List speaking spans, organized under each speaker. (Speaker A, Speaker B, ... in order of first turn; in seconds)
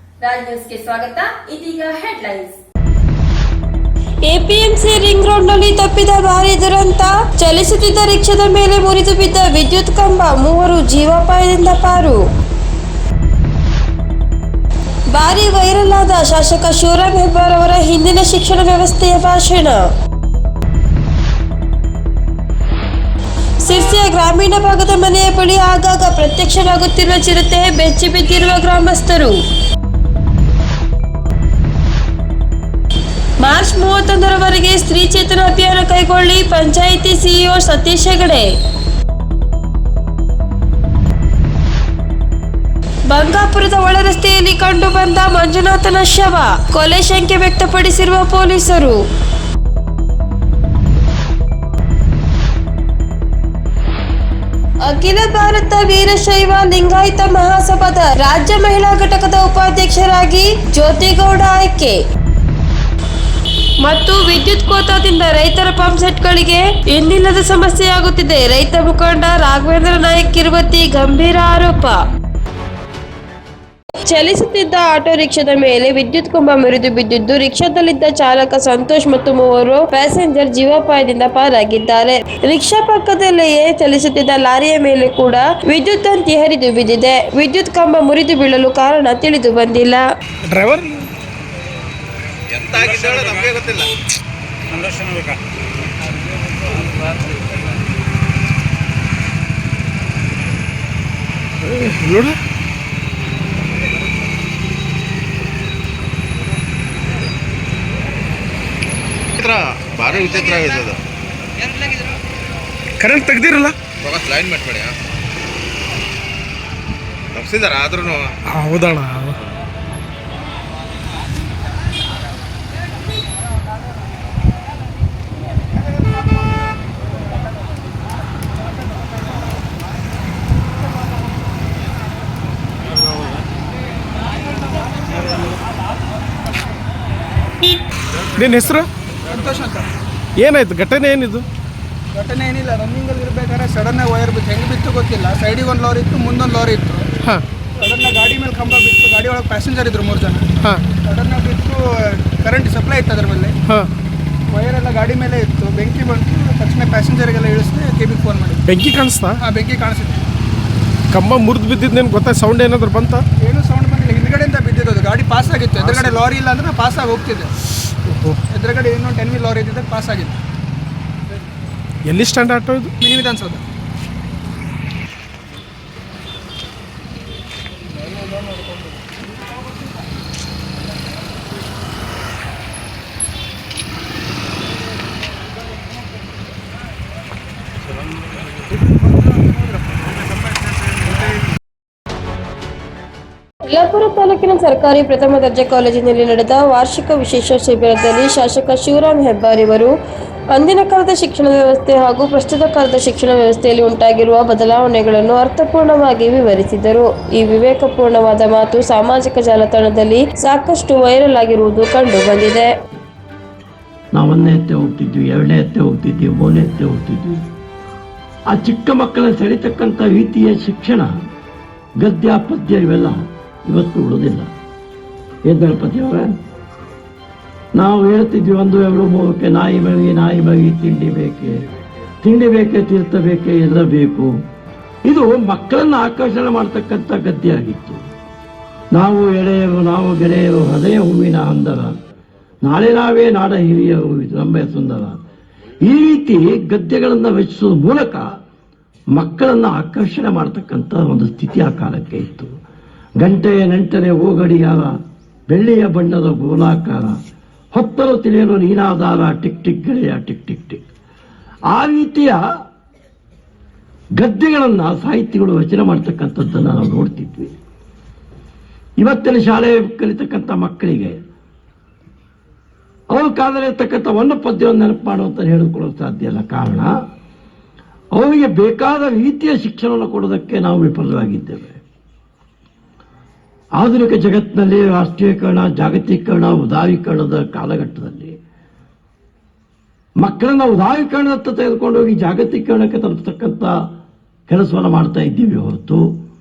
Speaker A: 0.2-2.6, 4.2-12.3, 15.1-19.9, 23.6-29.4, 33.4-38.5, 43.1-49.0, 54.8-62.0, 63.8-72.0, 74.0-90.1, 193.7-199.9, 200.5-212.7
Speaker B: 90.5-91.1, 101.6-102.4, 113.0-113.8, 118.5-119.4, 138.3-138.9, 140.4-141.4, 158.7-159.4, 161.1-163.2, 168.1-168.4, 172.1-172.9
Speaker C: 92.5-93.9, 109.4-111.0, 114.0-114.9, 117.3-118.3
Speaker D: 139.3-139.9, 142.1-147.1, 147.8-153.6, 154.5-158.6, 159.4-160.2, 163.4-167.5, 168.5-170.4, 173.0-173.6
Speaker E: 214.1-217.4, 218.5-221.1, 222.0-224.5, 225.5-226.4, 227.8-231.6, 232.2-234.3, 235.1-238.0, 238.9-241.9, 242.6-245.2, 245.8-248.2, 249.2-252.5, 253.2-254.9, 255.5-257.1, 257.7-260.8, 261.7-262.4, 264.2-267.5, 269.0-271.2, 273.1-276.9, 278.2-281.8, 283.8-288.4, 290.2-293.7, 294.5-296.0